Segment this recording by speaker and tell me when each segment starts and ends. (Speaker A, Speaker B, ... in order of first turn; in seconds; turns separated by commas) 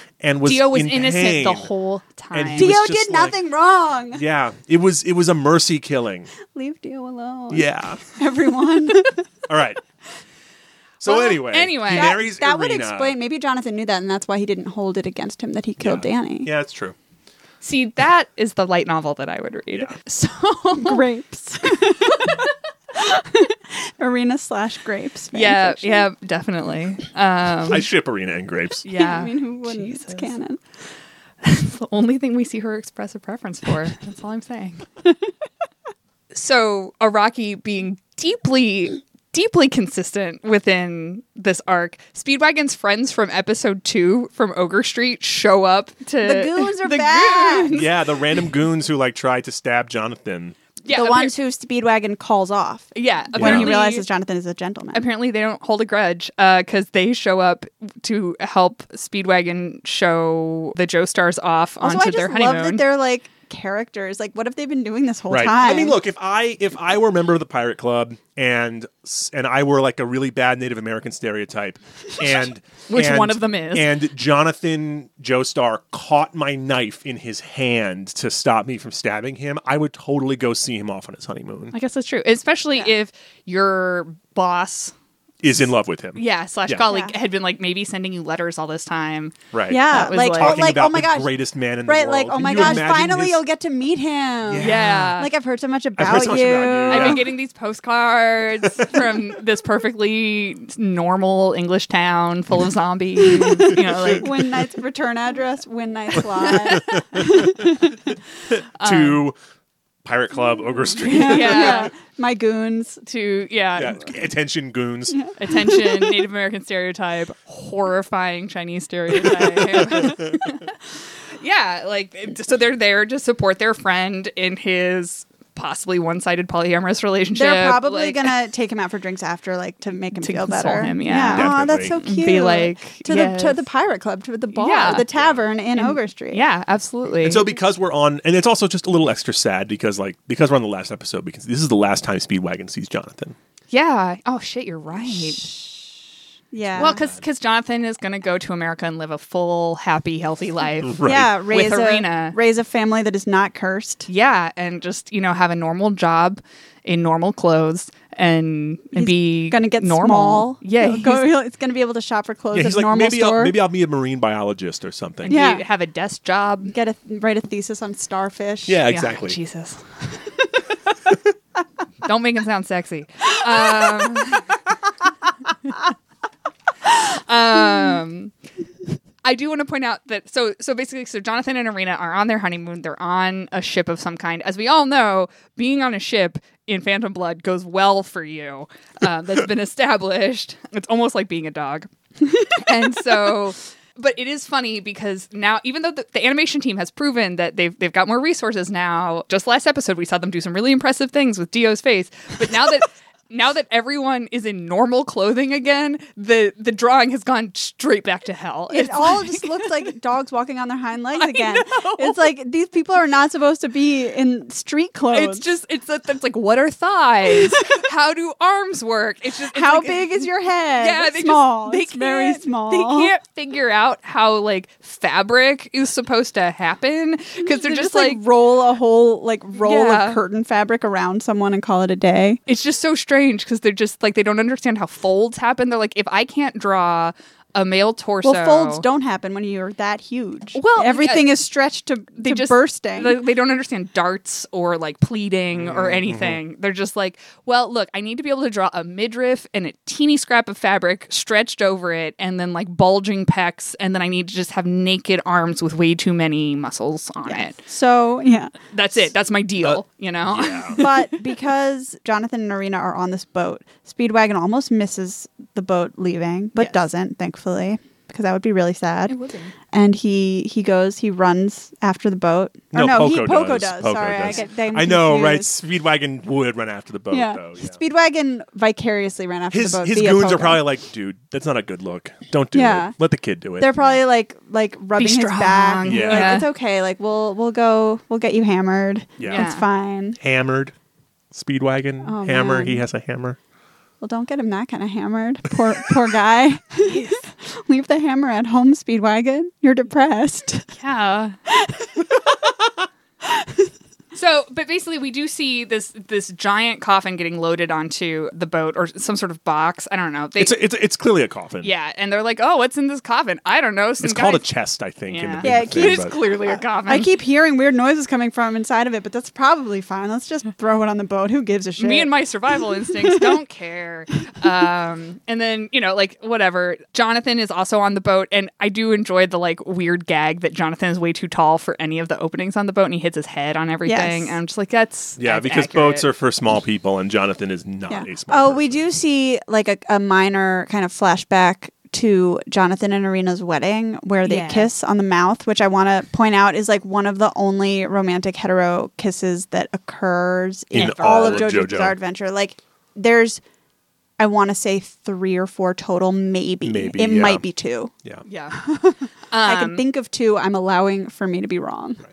Speaker A: 0.2-1.7, Speaker B: 0.5-2.8, Speaker A: 2.3-3.4, Speaker C: 2.6-4.2, Speaker A: 4.1-6.3, Speaker C: 6.5-9.2, Speaker A: 7.5-8.0, Speaker A: 9.5-9.8, Speaker A: 11.0-13.2, Speaker B: 11.1-12.2, Speaker C: 11.9-16.5, Speaker A: 15.8-16.9, Speaker B: 17.6-21.0, Speaker C: 20.8-26.1, Speaker B: 22.1-22.4, Speaker B: 25.3-27.9, Speaker A: 27.7-28.9, Speaker B: 28.8-30.3, Speaker C: 28.9-30.6, Speaker B: 31.4-34.9, Speaker B: 36.3-47.8, Speaker C: 46.2-47.9, Speaker A: 47.7-50.6, Speaker B: 50.8-51.3, Speaker C: 50.9-55.0, Speaker B: 53.0-54.1, Speaker A: 53.4-53.8, Speaker B: 54.9-62.8, Speaker C: 61.8-66.0, Speaker A: 65.3-81.7, Speaker B: 72.9-73.9, Speaker B: 81.7-84.9, Speaker A: 85.4-86.8, Speaker B: 86.2-90.6, Speaker C: 86.9-87.2, Speaker A: 89.5-93.4, Speaker C: 89.7-91.3, Speaker C: 91.9-97.2, Speaker A: 94.5-95.2, Speaker B: 94.6-95.3, Speaker A: 96.0-97.3, Speaker B: 96.9-104.4, Speaker A: 98.7-99.0, Speaker A: 103.6-104.2, Speaker C: 104.2-108.0, Speaker B: 106.4-107.0, Speaker A: 106.6-107.8, Speaker A: 108.5-109.4, Speaker B: 108.8-109.2, Speaker A: 110.0-111.9, Speaker C: 111.0-113.0, Speaker B: 111.1-111.9, Speaker B: 113.1-114.2, Speaker A: 113.8-115.3, Speaker C: 115.1-116.2, Speaker B: 115.4-120.8, Speaker A: 119.5-120.4, Speaker B: 121.3-128.3, Speaker C: 127.3-136.4, Speaker B: 130.2-133.7, Speaker A: 131.3-132.0, Speaker B: 134.6-135.1, Speaker A: 135.1-135.4, Speaker B: 135.8-137.5, Speaker A: 137.2-143.3, Speaker B: 143.7-145.6, Speaker C: 145.1-145.4, Speaker C: 146.5-147.0, Speaker A: 146.7-147.2, Speaker B: 146.8-152.4, Speaker A: 150.8-151.3, Speaker C: 151.1-154.1, Speaker B: 154.1-161.3, Speaker C: 158.9-163.5, Speaker A: 162.5-165.4, Speaker B: 165.2-166.8, Speaker C: 165.3-165.6, Speaker C: 166.7-168.8, Speaker A: 168.7-169.4, Speaker B: 168.9-170.3, Speaker B: 172.0-174.6, Speaker B: 176.8-178.3, Speaker B: 179.2-191.9, Speaker B: 192.4-209.7, Speaker C: 208.7-215.4, Speaker B: 211.1-212.3, Speaker B: 215.1-228.2, Speaker C: 219.5-223.1, Speaker C: 227.4-232.4, Speaker B: 229.6-230.2, Speaker B: 232.5-238.8, Speaker C: 238.2-243.2, Speaker B: 240.5-241.3, Speaker B: 242.2-257.6, Speaker A: 245.6-246.4, Speaker C: 257.2-258.6, Speaker B: 258.7-261.0, Speaker A: 259.6-260.8, Speaker C: 260.8-269.1, Speaker B: 269.1-269.5, Speaker C: 269.7-275.5, Speaker A: 272.7-277.8, Speaker C: 277.1-280.6, Speaker A: 279.5-283.7, Speaker C: 282.5-282.9, Speaker C: 283.6-290.2, Speaker B: 285.0-286.5, Speaker A: 285.9-286.4, Speaker A: 289.2-289.5, Speaker B: 289.3-289.6, Speaker A: 290.2-290.7, Speaker A: 291.3-293.4, Speaker C: 292.0-292.8, Speaker C: 294.0-300.7, Speaker B: 296.9-297.2, Speaker B: 300.7-301.4, Speaker C: 301.5-302.4, Speaker C: 303.2-303.7, Speaker B: 304.1-310.6, Speaker A: 310.4-311.7, Speaker B: 311.6-314.4, Speaker A: 314.0-316.1, Speaker B: 315.1-317.1, Speaker C: 315.4-322.1, Speaker B: 321.8-336.1, Speaker C: 323.1-323.3, Speaker C: 333.9-334.4, Speaker A: 335.2-338.8, Speaker C: 337.9-353.4, Speaker B: 344.2-344.7, Speaker A: 350.7-352.0, Speaker C: 354.2-357.9, Speaker A: 356.6-357.4, Speaker B: 358.2-358.6, Speaker C: 358.5-362.0, Speaker B: 359.3-359.9